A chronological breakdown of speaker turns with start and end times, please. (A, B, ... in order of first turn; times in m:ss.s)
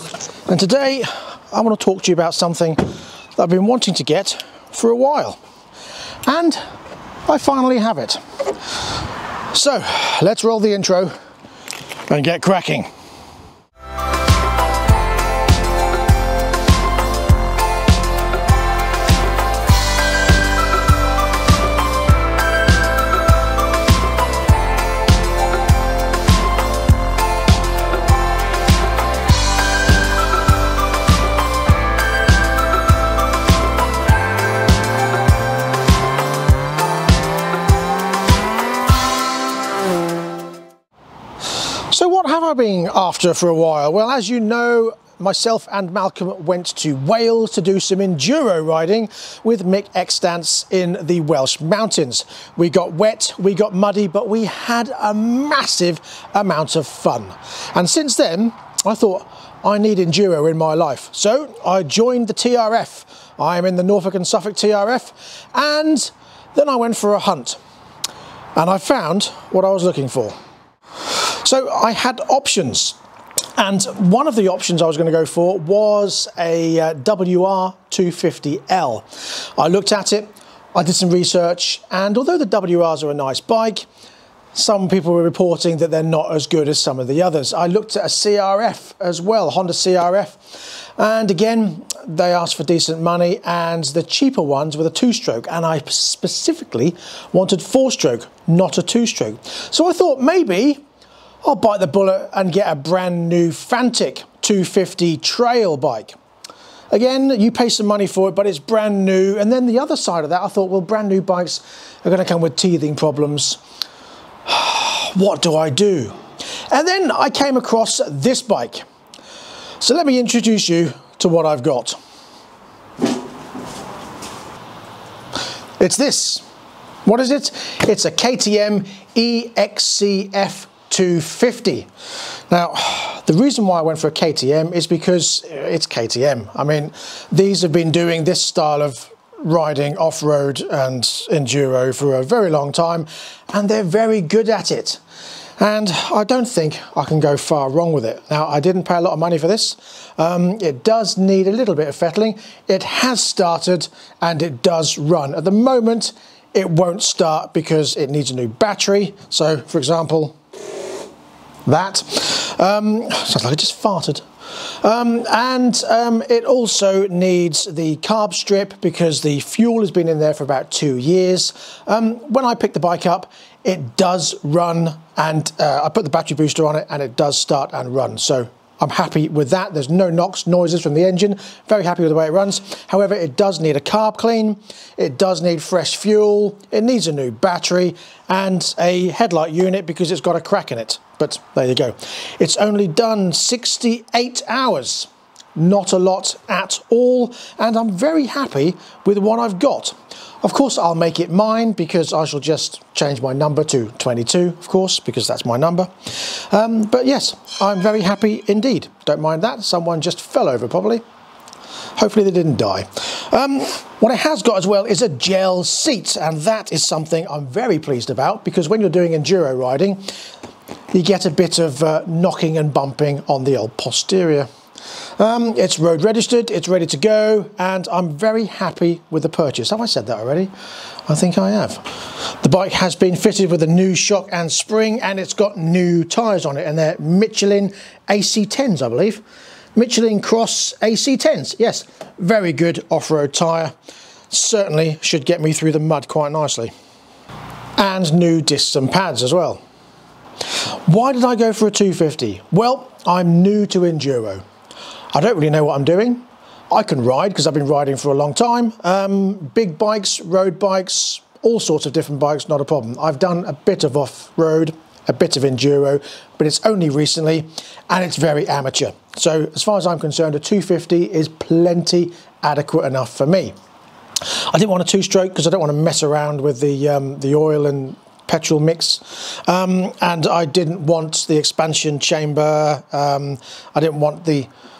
0:00.5-0:02.8 A
0:03.4-0:05.4 A
0:06.2-0:06.6 A
0:07.3-0:08.2 A
0:09.5-0:11.1 A
0:12.1-0:12.9 A
0:41.7-1:07.6 A
1:08.6-1:10.4 A
1:11.0-1:13.0 A
1:13.6-1:23.8 A
1:24.5-1:40.8 A
1:41.4-1:46.2 A
1:46.9-1:53.6 A
1:54.4-1:56.2 A
1:56.7-1:58.8 A
1:59.8-2:02.0 A
2:05.8-2:06.4 A
2:07.0-2:11.9 A
2:12.5-2:25.0 A
2:25.6-2:40.4 A
2:41.6-3:31.0 A
3:32.0-3:40.1 A
3:40.9-3:44.5 A
3:45.2-3:50.5 A
3:51.1-3:59.2 A
3:59.7-4:03.7 A
4:04.3-4:06.7 A
4:07.8-4:09.6 A
4:10.9-4:14.4 A
4:15.1-4:33.5 A
4:34.2-4:44.5 A